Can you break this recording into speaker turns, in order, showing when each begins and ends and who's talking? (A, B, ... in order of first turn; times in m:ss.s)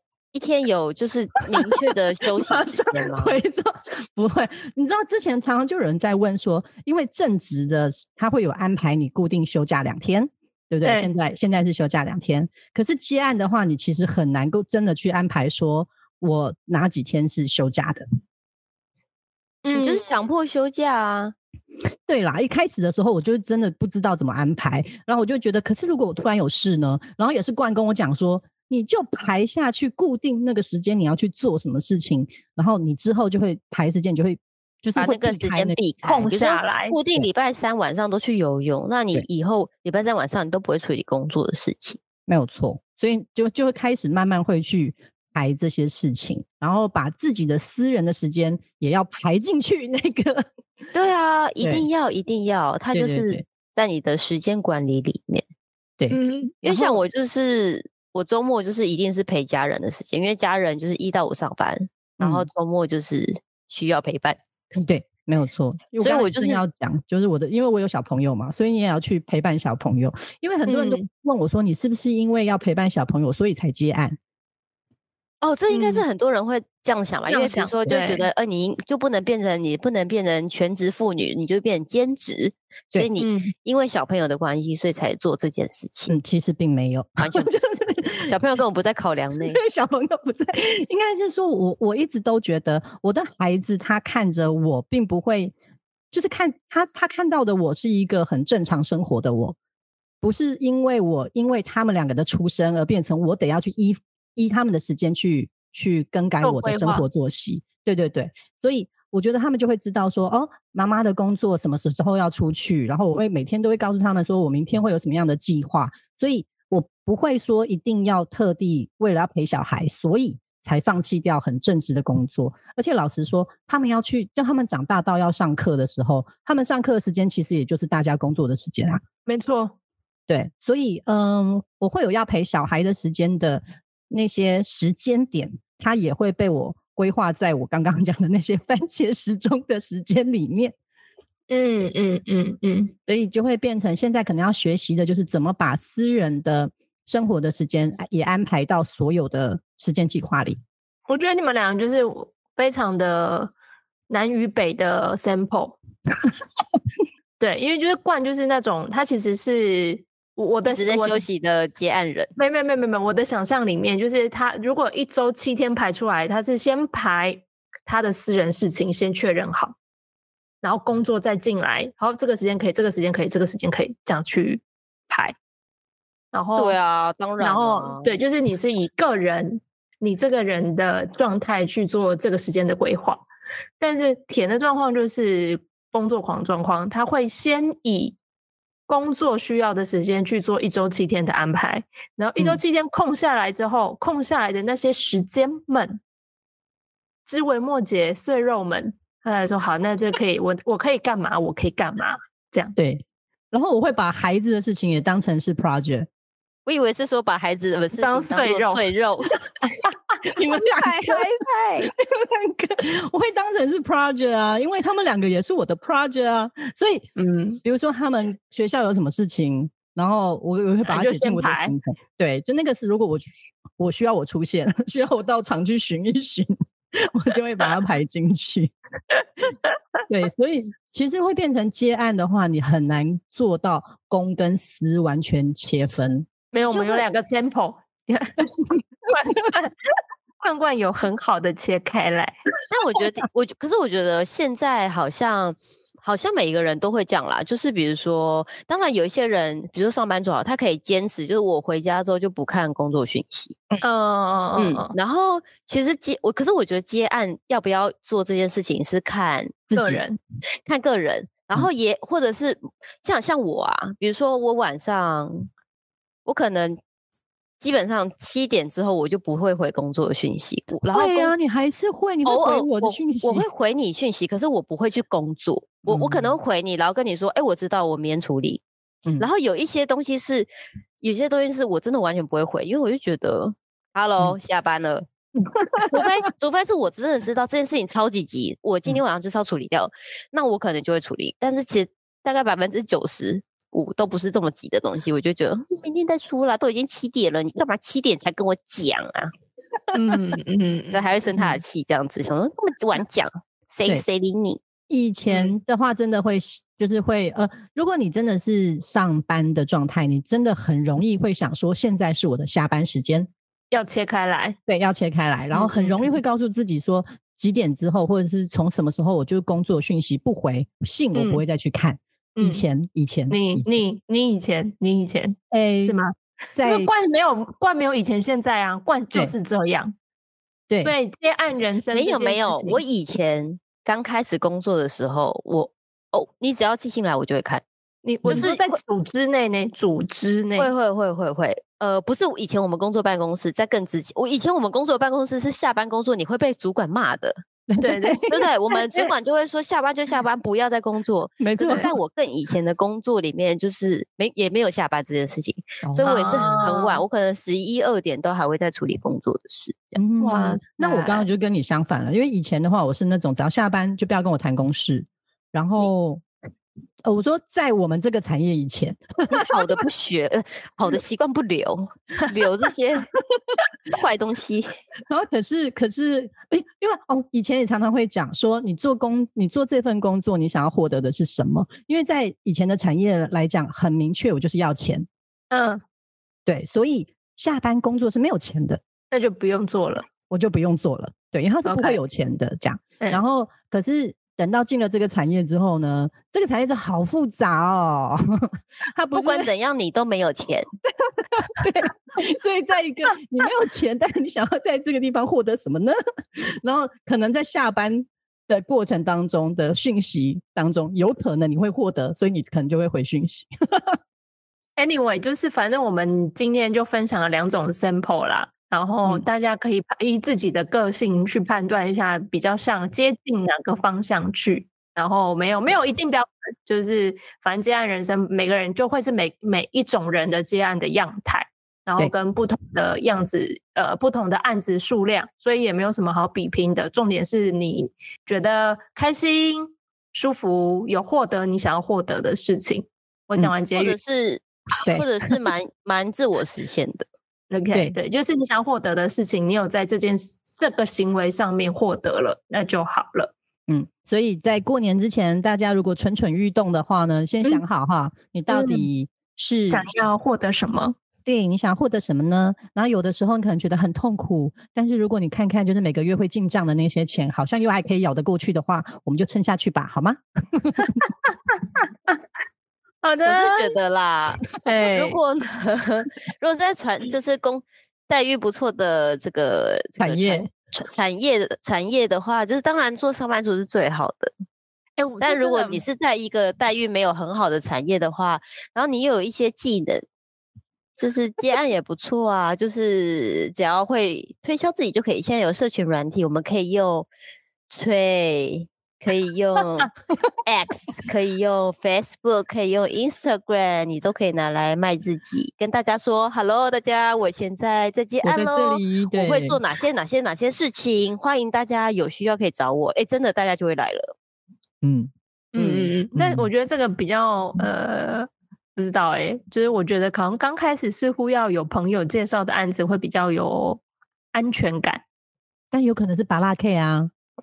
0:00.3-0:03.4 A
0:01.5-0:18.0 B
0:10.8-0:11.1 C
0:19.6-0:20.0 C
0:19.7-0:21.3 A
0:22.1-0:35.8 B
0:35.0-0:42.0 A
0:36.0-0:37.0 C
0:42.3-0:50.5 B
0:50.9-0:55.4 A
0:51.6-0:51.8 B
0:52.9-0:53.4 B
0:56.0-0:57.0 B
0:56.1-0:56.5 C
0:56.6-1:04.4 A
1:02.2-1:02.5 B
1:04.8-1:14.2 B
1:06.0-1:06.6 A
1:10.7-1:11.0 C
1:15.4-1:26.2 A
1:15.7-1:16.0 C
1:17.3-1:18.3 C
1:23.2-1:23.5 C
1:26.1-1:28.3 B
1:27.2-1:27.6 A
1:28.3-1:29.6 A
1:29.4-1:35.5 B
1:36.1-1:39.6 B
1:40.2-2:09.0 B
1:46.4-1:47.0 C
2:09.2-2:09.7 C
2:10.3-2:20.7 B
2:21.5-2:22.9 C
2:23.1-2:30.6 B
2:31.1-2:33.5 C
2:34.1-2:35.8 C
2:37.4-2:41.2 C
2:40.6-2:42.3 A
2:42.4-2:49.8 C
2:50.6-2:55.3 C
2:56.3-2:56.8 C
2:56.6-2:58.1 A
2:57.4-3:03.3 C
3:03.8-3:08.2 C
3:08.9-3:16.0 C
3:17.2-3:22.8 C
3:22.8-3:26.1 B
3:26.6-3:29.4 A
3:27.9-3:28.9 C
3:30.3-3:37.1 B
3:30.6-3:31.9 C
3:37.2-3:37.6 C
3:37.6-3:48.7 B
3:40.8-3:41.7 C
3:50.1-3:56.3 B
3:56.5-3:58.5 C
3:56.6-3:57.0 A
3:59.0-3:59.7 C
4:00.4-4:02.4 C
4:02.7-4:13.6 A
4:13.8-4:14.9 C
4:14.6-4:19.7 A
4:19.7-4:20.0 B
4:19.7-4:20.2 C
4:20.6-4:25.5 A
4:26.2-4:26.8 A
4:27.6-4:31.3 A
4:30.8-4:33.4 B
4:32.2-4:38.6 A
4:35.8-4:36.3 B
4:39.2-4:40.5 A
4:41.0-4:45.1 A
4:45.8-4:46.0 B
4:45.8-4:59.3 A
4:59.9-5:01.0 C
5:00.9-5:04.6 A
5:04.9-5:13.3 B
5:13.7-5:14.6 C
5:14.7-5:23.8 B
5:15.5-5:16.2 C
5:21.1-5:21.4 C
5:22.4-5:22.6 C
5:23.3-5:29.9 C
5:25.5-5:26.0 B
5:26.5-5:26.9 B
5:30.8-5:32.8 C
5:31.9-5:37.6 A
5:38.0-5:40.7 C
5:38.2-5:38.8 A
5:40.6-5:47.4 A
5:47.7-5:48.3 B
5:47.8-5:49.1 C
5:48.3-6:00.0 A
5:51.4-5:51.9 B
5:55.8-5:56.6 B
5:56.0-5:57.0 C
6:00.0-6:06.2 B
6:00.2-6:01.3 C
6:07.0-6:09.5 B
6:09.3-6:13.1 A
6:13.9-6:14.7 A
6:15.1-6:25.1 B
6:25.5-6:25.8 C
6:26.4-6:28.8 B
6:29.1-6:30.1 C
6:30.3-6:39.5 B
6:31.6-6:32.0 C
6:39.1-6:40.7 A
6:41.0-6:54.0 B
6:54.8-7:24.0 C
7:23.7-7:27.1 A
7:27.5-7:33.3 C
7:33.7-7:40.0 B
7:38.5-7:38.9 C
7:39.7-7:41.0 C
7:41.2-7:51.0 B
7:51.6-7:52.1 C
7:53.0-7:53.7 C
7:53.2-8:04.3 A
7:54.6-7:55.2 C
8:00.0-8:00.5 B
8:05.0-8:05.8 C
8:05.2-8:10.0 A
8:11.0-8:17.1 A
8:17.7-8:19.9 A
8:20.4-8:34.1 A
8:28.2-8:29.6 B
8:34.8-8:36.5 B
8:35.5-8:43.8 C
8:44.3-8:45.0 C
8:45.7-8:47.1 B